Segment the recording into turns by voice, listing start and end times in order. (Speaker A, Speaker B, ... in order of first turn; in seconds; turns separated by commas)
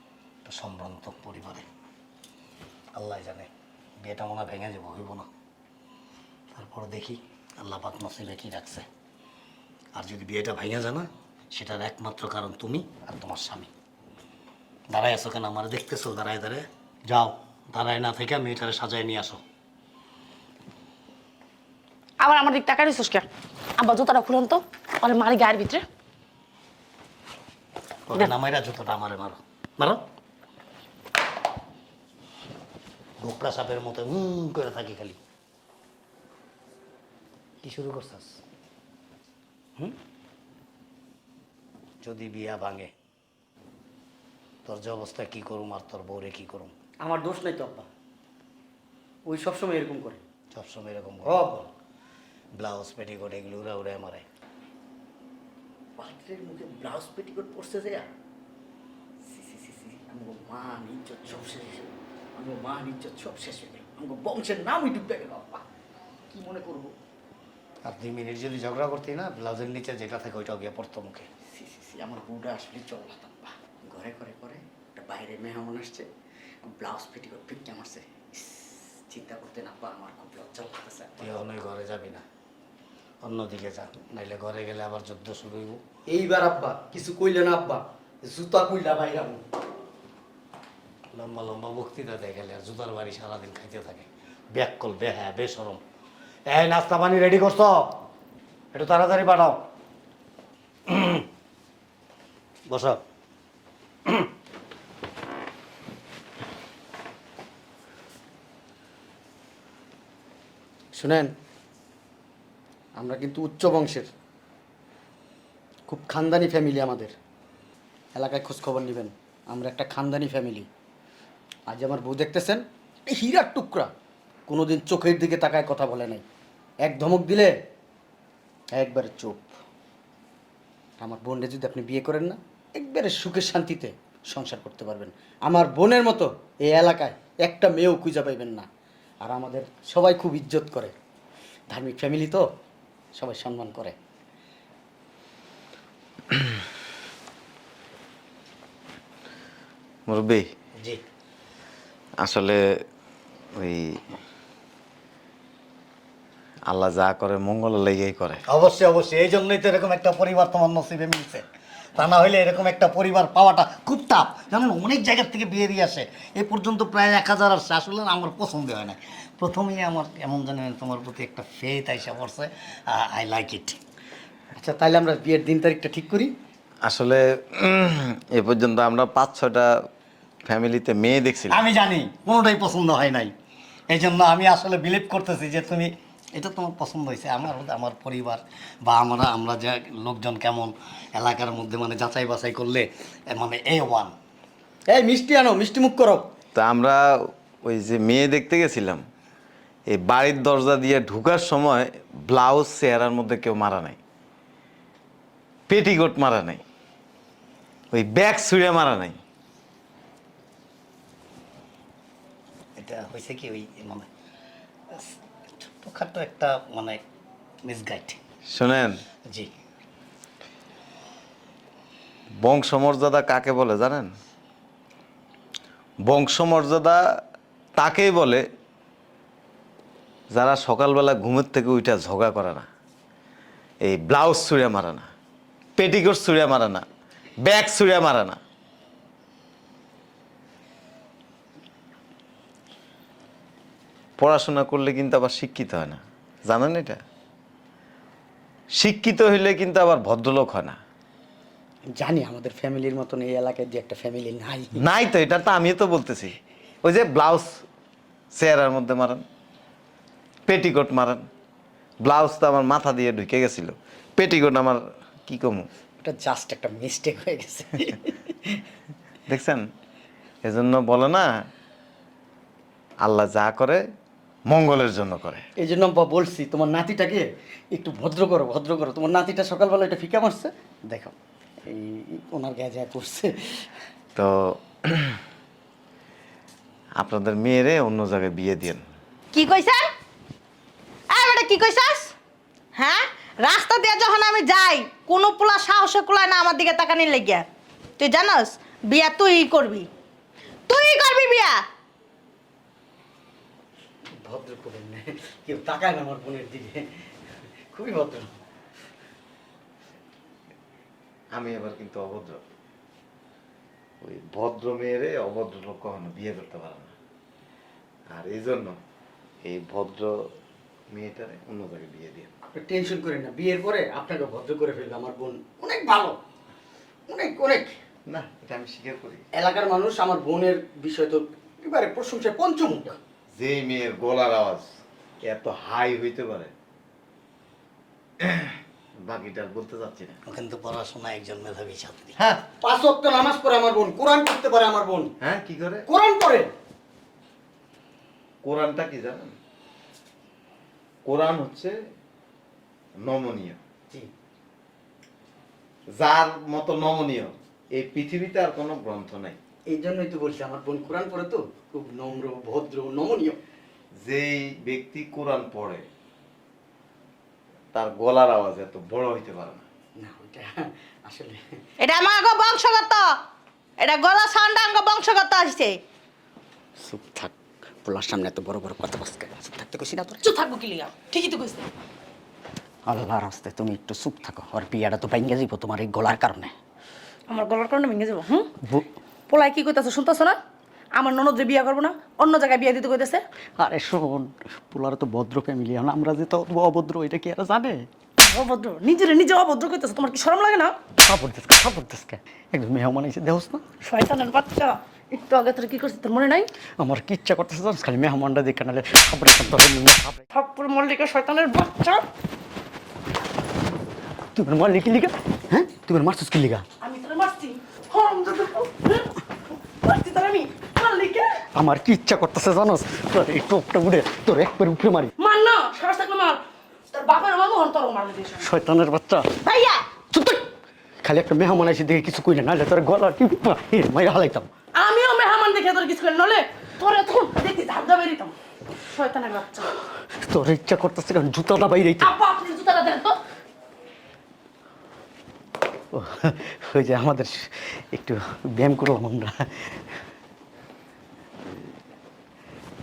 Speaker A: 0.5-1.7, Speaker A: 3.0-3.5, Speaker A: 4.0-5.3, Speaker A: 6.5-8.9, Speaker A: 9.9-13.7, Speaker A: 14.9-19.4, Speaker B: 22.2-23.2, Speaker B: 23.8-25.9, Speaker A: 28.1-30.0, Speaker A: 33.2-35.2, Speaker A: 37.6-38.4, Speaker A: 42.0-42.9, Speaker A: 44.6-46.7, Speaker C: 47.0-47.9, Speaker C: 49.3-50.2, Speaker A: 50.5-51.5, Speaker C: 51.4-51.6, Speaker A: 52.6-54.2, Speaker C: 56.0-58.1, Speaker C: 59.3-65.6, Speaker C: 66.3-66.9, Speaker A: 67.8-71.3, Speaker C: 71.5-76.1, Speaker C: 76.6-81.3, Speaker A: 81.2-82.2, Speaker A: 83.2-85.8, Speaker C: 86.1-89.4, Speaker A: 91.1-95.8, Speaker A: 96.5-98.0, Speaker A: 98.7-99.6, Speaker A: 100.9-101.2, Speaker A: 102.7-103.0, Speaker C: 110.9-111.3, Speaker C: 113.0-114.1, Speaker C: 115.9-117.2, Speaker C: 118.1-120.7, Speaker C: 121.7-123.9, Speaker C: 124.5-126.2, Speaker C: 126.8-127.6, Speaker C: 128.7-129.5, Speaker C: 131.0-138.7, Speaker C: 139.2-140.9, Speaker C: 141.7-142.5, Speaker C: 143.2-144.0, Speaker D: 150.1-150.5, Speaker D: 152.2-152.6, Speaker D: 153.6-154.0, Speaker D: 156.7-158.4, Speaker A: 158.5-161.4, Speaker A: 162.0-173.8, Speaker C: 174.6-176.3, Speaker D: 176.8-179.7, Speaker D: 180.5-181.6, Speaker A: 181.5-183.3, Speaker A: 183.9-194.1, Speaker C: 194.9-196.3, Speaker D: 196.6-199.0, Speaker D: 199.9-204.0, Speaker D: 205.7-206.6, Speaker D: 207.9-209.2, Speaker A: 212.8-214.1, Speaker A: 214.9-217.0, Speaker A: 217.7-218.2, Speaker D: 218.5-219.0, Speaker D: 222.4-224.1, Speaker D: 226.1-227.0, Speaker D: 227.8-228.4, Speaker D: 230.3-232.7, Speaker D: 233.8-235.1, Speaker D: 235.8-236.8, Speaker D: 237.4-238.4, Speaker D: 244.2-247.0, Speaker D: 248.7-250.8, Speaker C: 251.9-254.8, Speaker D: 254.8-257.6, Speaker D: 258.3-259.2, Speaker D: 260.5-261.3, Speaker D: 262.0-265.7, Speaker C: 266.0-268.6, Speaker D: 269.3-269.7, Speaker D: 270.4-271.3, Speaker D: 273.0-273.8, Speaker D: 274.5-275.4, Speaker C: 275.6-281.1, Speaker C: 281.7-283.7, Speaker D: 284.2-285.2, Speaker D: 287.0-288.8, Speaker E: 289.3-289.9, Speaker E: 291.1-292.1, Speaker E: 292.8-297.4, Speaker E: 298.0-299.9, Speaker E: 300.7-301.6, Speaker C: 304.2-306.9, Speaker C: 307.7-308.4, Speaker D: 311.3-312.4, Speaker D: 314.0-316.9, Speaker D: 318.1-318.8, Speaker D: 319.4-320.1, Speaker D: 320.9-322.3, Speaker C: 322.5-326.2, Speaker C: 327.1-327.8, Speaker D: 328.1-329.2, Speaker C: 329.4-333.0, Speaker D: 333.4-334.7, Speaker D: 335.2-336.5, Speaker D: 338.2-340.2, Speaker A: 340.3-342.1, Speaker D: 342.2-342.4, Speaker C: 342.5-345.1, Speaker D: 345.2-345.9, Speaker C: 345.9-346.5, Speaker D: 348.4-349.3, Speaker D: 351.1-351.8, Speaker D: 353.0-353.6, Speaker D: 355.9-359.4, Speaker C: 359.7-363.4, Speaker D: 364.0-365.9, Speaker D: 367.7-369.6, Speaker C: 370.0-371.4, Speaker E: 371.8-373.1, Speaker E: 373.8-375.8, Speaker C: 376.8-380.2, Speaker B: 380.2-381.7, Speaker C: 382.9-386.5, Speaker B: 387.3-388.5, Speaker B: 389.3-390.4, Speaker B: 391.0-393.2, Speaker C: 393.6-397.9, Speaker B: 398.2-400.8, Speaker C: 401.0-403.6, Speaker B: 403.8-406.5, Speaker C: 406.8-410.2, Speaker B: 410.3-412.0, Speaker C: 414.4-416.6, Speaker B: 416.8-419.2, Speaker B: 419.8-421.4, Speaker C: 421.6-425.1, Speaker B: 425.2-428.5, Speaker C: 428.4-429.3, Speaker E: 429.4-429.8, Speaker C: 430.1-430.5, Speaker C: 431.0-434.5, Speaker B: 434.8-439.8, Speaker C: 440.2-442.1, Speaker B: 442.0-443.2, Speaker C: 445.9-449.8